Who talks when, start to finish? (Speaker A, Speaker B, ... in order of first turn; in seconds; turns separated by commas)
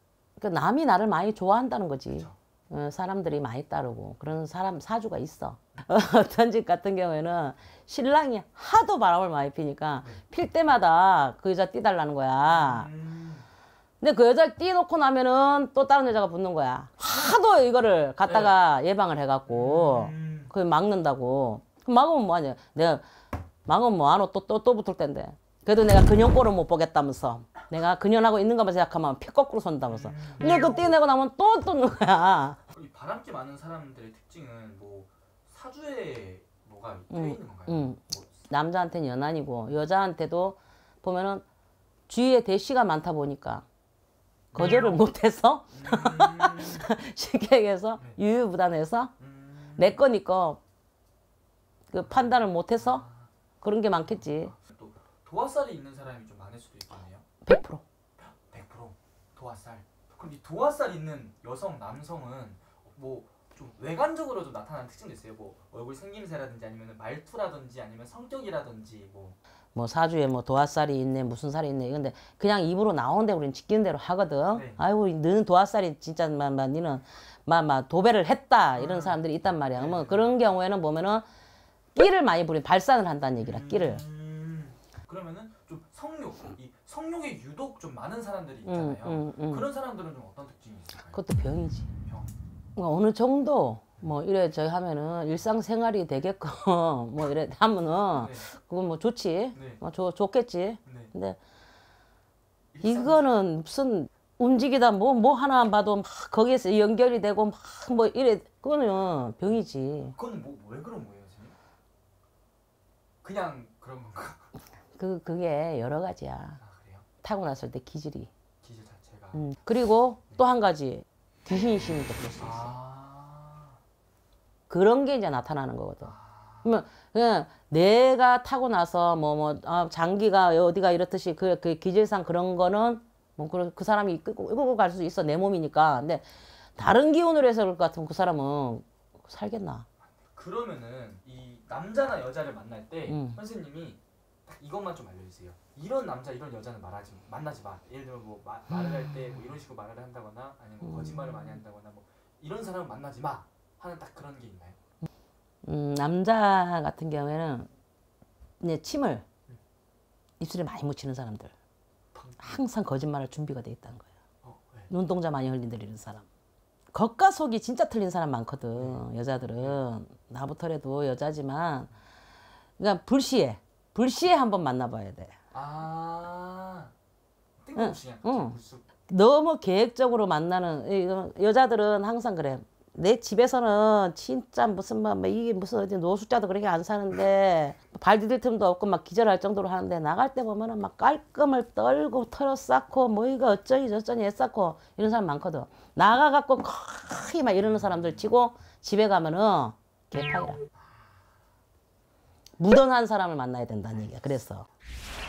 Speaker A: 0.4-12.9, Speaker B: 2.1-2.4, Speaker B: 12.4-13.4, Speaker A: 14.0-23.0, Speaker B: 18.2-18.6, Speaker B: 19.5-20.5, Speaker A: 23.6-32.6, Speaker B: 29.9-30.9, Speaker B: 32.7-38.5, Speaker A: 37.1-41.4, Speaker A: 42.1-43.6, Speaker B: 44.5-45.1, Speaker A: 44.5-49.1, Speaker B: 45.7-46.9, Speaker B: 49.2-50.0, Speaker A: 49.8-50.6, Speaker A: 51.9-53.0, Speaker B: 52.0-53.3, Speaker A: 53.6-54.5, Speaker B: 54.0-57.2, Speaker A: 57.4-57.8, Speaker B: 58.2-69.4, Speaker A: 69.7-81.2, Speaker B: 74.5-74.8, Speaker B: 78.7-79.2, Speaker B: 79.7-80.3, Speaker A: 81.9-84.0, Speaker B: 83.4-91.2, Speaker A: 88.6-89.7, Speaker A: 91.1-91.9, Speaker B: 92.0-92.3, Speaker A: 92.8-101.4, Speaker B: 98.1-98.5, Speaker B: 99.5-99.8, Speaker B: 100.8-101.1, Speaker B: 102.7-103.3, Speaker A: 102.8-110.1, Speaker B: 110.1-111.5, Speaker B: 113.2-114.5, Speaker A: 114.9-116.6, Speaker B: 116.6-117.0, Speaker A: 117.2-118.3, Speaker B: 118.6-119.5, Speaker A: 119.3-122.7, Speaker B: 122.4-123.8, Speaker A: 124.7-126.1, Speaker B: 126.0-126.8, Speaker A: 126.6-139.8, Speaker B: 140.1-154.8, Speaker A: 143.1-143.4, Speaker A: 150.8-151.6, Speaker A: 155.6-157.7, Speaker A: 158.6-159.2, Speaker A: 160.4-161.5, Speaker B: 162.1-162.6, Speaker A: 162.4-164.1, Speaker B: 164.4-164.9, Speaker A: 164.9-166.2, Speaker A: 166.9-171.9, Speaker B: 168.7-169.1, Speaker A: 172.8-175.3, Speaker B: 175.5-176.9, Speaker B: 177.6-178.9, Speaker A: 177.8-178.5, Speaker A: 179.1-200.6, Speaker B: 200.7-201.2, Speaker A: 202.6-204.7